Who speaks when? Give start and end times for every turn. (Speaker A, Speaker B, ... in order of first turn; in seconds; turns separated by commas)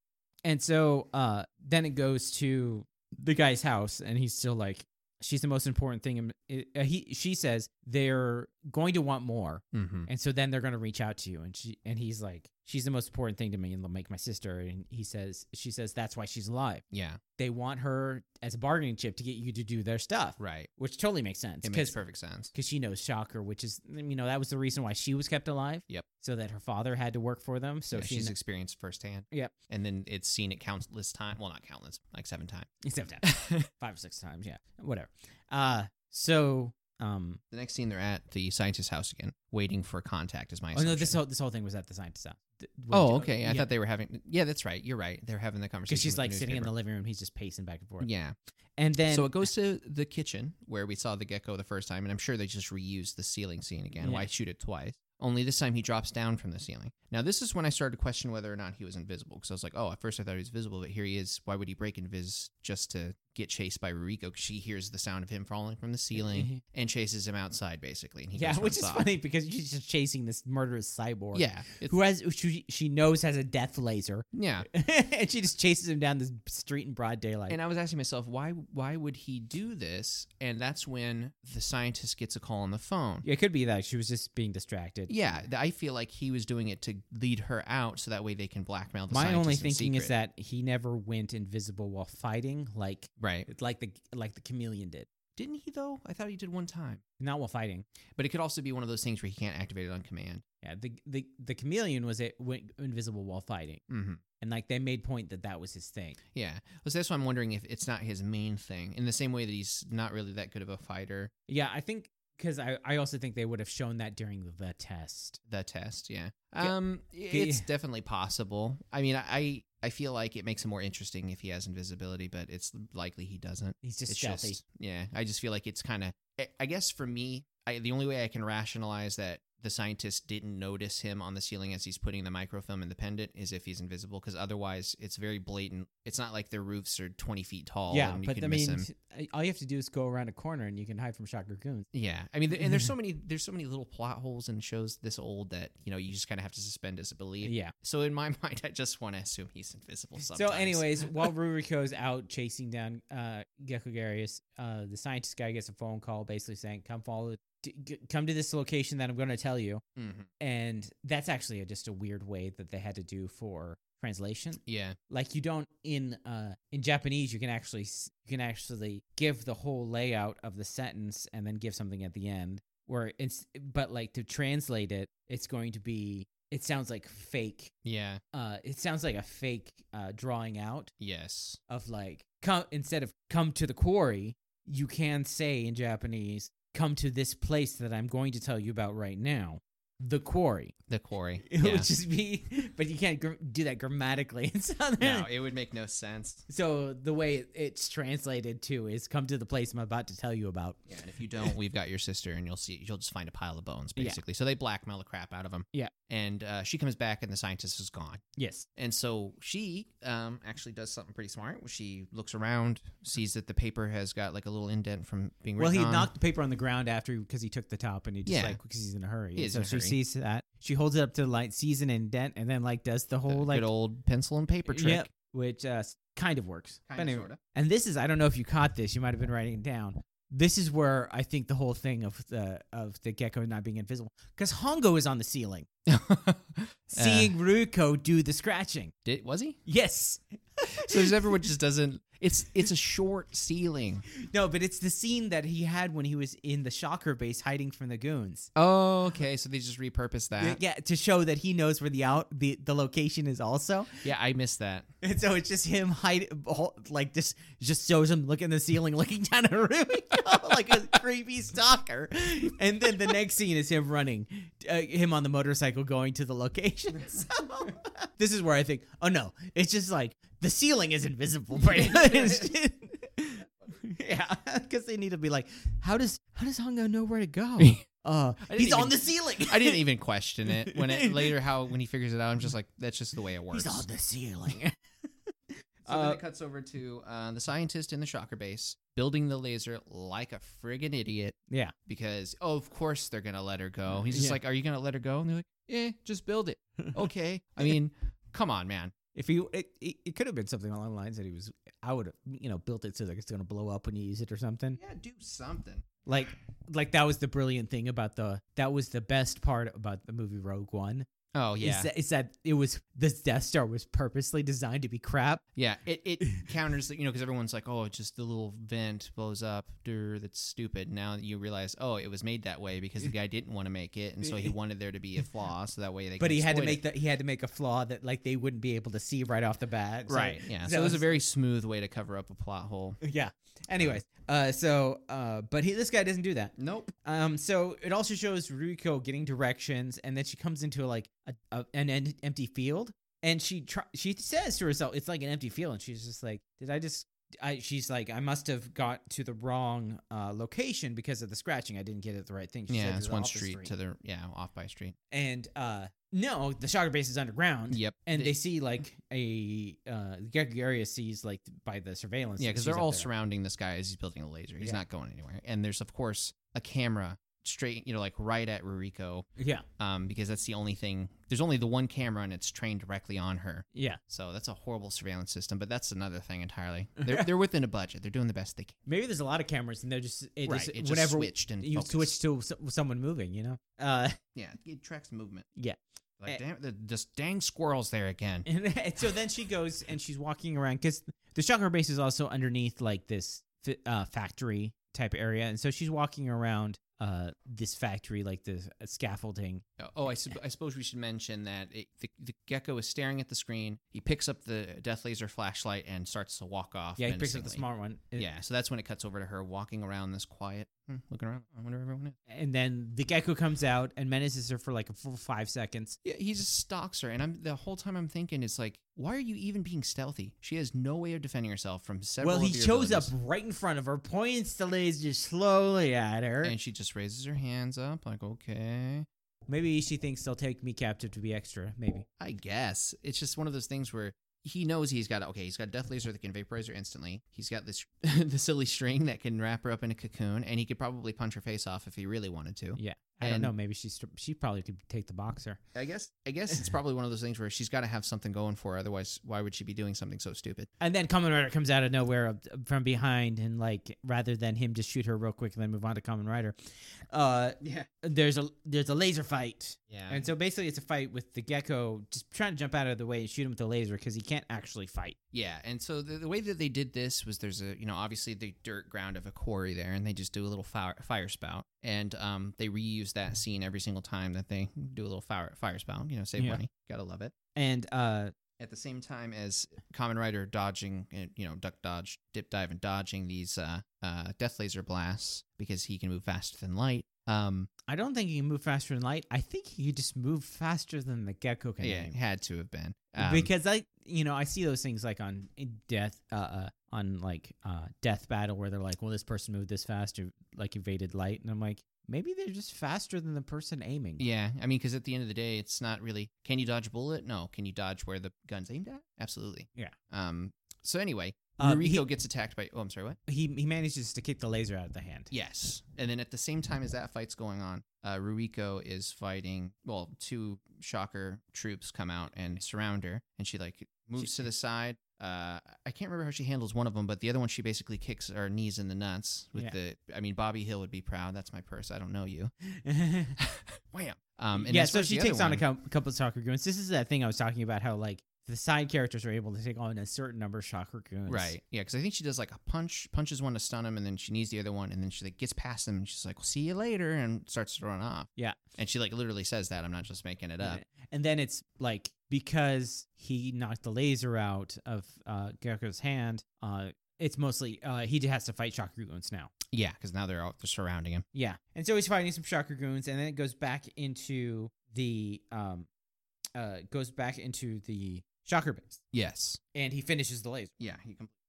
Speaker A: 0.5-16.8, Speaker B: 9.7-10.1, Speaker B: 16.9-17.2, Speaker A: 17.4-22.0, Speaker B: 20.4-20.7, Speaker B: 21.6-22.5, Speaker A: 22.5-28.3, Speaker B: 27.9-32.7, Speaker A: 32.8-37.4, Speaker B: 33.2-33.7, Speaker B: 37.5-41.2, Speaker A: 40.7-43.7, Speaker B: 42.9-46.7, Speaker A: 45.9-48.1, Speaker B: 48.0-48.4, Speaker A: 48.8-49.5, Speaker B: 49.1-69.1, Speaker A: 54.0-54.3, Speaker A: 66.2-66.6, Speaker A: 68.3-77.6, Speaker B: 71.3-71.9, Speaker B: 74.3-74.7, Speaker B: 77.5-83.2, Speaker A: 83.2-85.1, Speaker B: 85.1-90.1, Speaker A: 89.1-95.1, Speaker B: 93.2-93.5, Speaker B: 95.4-97.0, Speaker A: 97.2-97.9, Speaker B: 98.2-100.4, Speaker A: 100.6-103.8, Speaker B: 103.9-104.2, Speaker A: 104.4-106.2, Speaker B: 106.3-111.3, Speaker A: 111.5-115.4, Speaker B: 115.5-138.9, Speaker A: 117.3-117.7, Speaker A: 123.8-124.6, Speaker A: 137.9-141.9, Speaker B: 141.9-151.3, Speaker A: 142.6-142.9, Speaker A: 147.4-147.7, Speaker A: 150.2-159.8, Speaker B: 160.0-160.3, Speaker A: 160.4-177.7, Speaker B: 164.6-165.0, Speaker B: 177.8-178.2, Speaker A: 178.3-180.9, Speaker B: 181.0-181.6, Speaker A: 181.7-190.8, Speaker B: 190.9-191.9, Speaker A: 191.5-195.3, Speaker B: 195.0-196.5, Speaker A: 196.5-200.8, Speaker B: 200.9-208.2, Speaker A: 208.4-208.7, Speaker B: 208.8-216.1, Speaker A: 215.6-223.7, Speaker B: 218.3-218.6, Speaker B: 219.3-220.0, Speaker B: 223.3-225.1, Speaker A: 224.7-235.7, Speaker B: 226.9-227.4, Speaker B: 235.9-237.3, Speaker A: 236.9-238.9, Speaker B: 239.1-239.6, Speaker A: 239.7-241.3, Speaker B: 240.8-244.1, Speaker A: 244.2-248.5, Speaker B: 248.6-250.6, Speaker A: 250.4-254.1, Speaker B: 254.0-254.9, Speaker A: 255.0-279.8, Speaker B: 271.6-272.5, Speaker B: 277.6-277.8, Speaker B: 278.4-283.9, Speaker A: 280.5-281.3, Speaker A: 283.5-284.8, Speaker A: 285.5-286.2, Speaker B: 285.9-291.4, Speaker B: 291.9-298.9, Speaker A: 294.1-294.4, Speaker A: 299.1-304.8, Speaker B: 304.8-305.9, Speaker A: 306.1-311.1, Speaker B: 311.3-311.9, Speaker A: 311.6-315.4, Speaker B: 315.6-326.8, Speaker A: 324.2-324.5, Speaker A: 326.2-331.1, Speaker B: 330.1-333.0, Speaker A: 333.0-353.7, Speaker B: 336.6-336.9, Speaker B: 352.7-354.9, Speaker A: 355.1-363.1, Speaker B: 357.7-358.4, Speaker B: 362.4-369.3, Speaker A: 369.4-369.6, Speaker B: 369.8-378.8, Speaker A: 373.7-374.0, Speaker A: 377.0-377.3, Speaker A: 378.9-384.2, Speaker B: 380.5-382.1, Speaker B: 384.4-385.5, Speaker A: 385.6-386.4, Speaker B: 386.2-388.5, Speaker A: 388.5-399.6, Speaker B: 399.8-407.6, Speaker A: 407.0-408.3, Speaker B: 408.1-412.1, Speaker A: 412.3-416.0, Speaker B: 416.0-423.1, Speaker A: 422.2-426.6, Speaker B: 426.4-429.1, Speaker A: 429.5-432.1, Speaker B: 432.2-443.5, Speaker A: 442.8-445.6, Speaker B: 445.8-450.7, Speaker A: 450.8-465.1, Speaker B: 457.6-457.9, Speaker B: 459.9-460.3, Speaker B: 465.3-477.3, Speaker A: 477.6-478.3, Speaker B: 478.6-487.7, Speaker A: 487.9-492.1, Speaker B: 491.8-493.5, Speaker A: 493.2-504.2, Speaker B: 504.2-513.2, Speaker A: 511.6-512.1, Speaker A: 513.3-515.3, Speaker B: 515.3-532.5, Speaker A: 532.7-533.4, Speaker B: 533.4-535.6, Speaker A: 534.5-541.5, Speaker B: 541.3-550.8, Speaker A: 550.6-559.5, Speaker B: 559.7-561.3, Speaker A: 561.3-565.9, Speaker A: 566.5-569.0, Speaker B: 569.1-569.6, Speaker A: 569.7-570.7, Speaker B: 570.8-571.3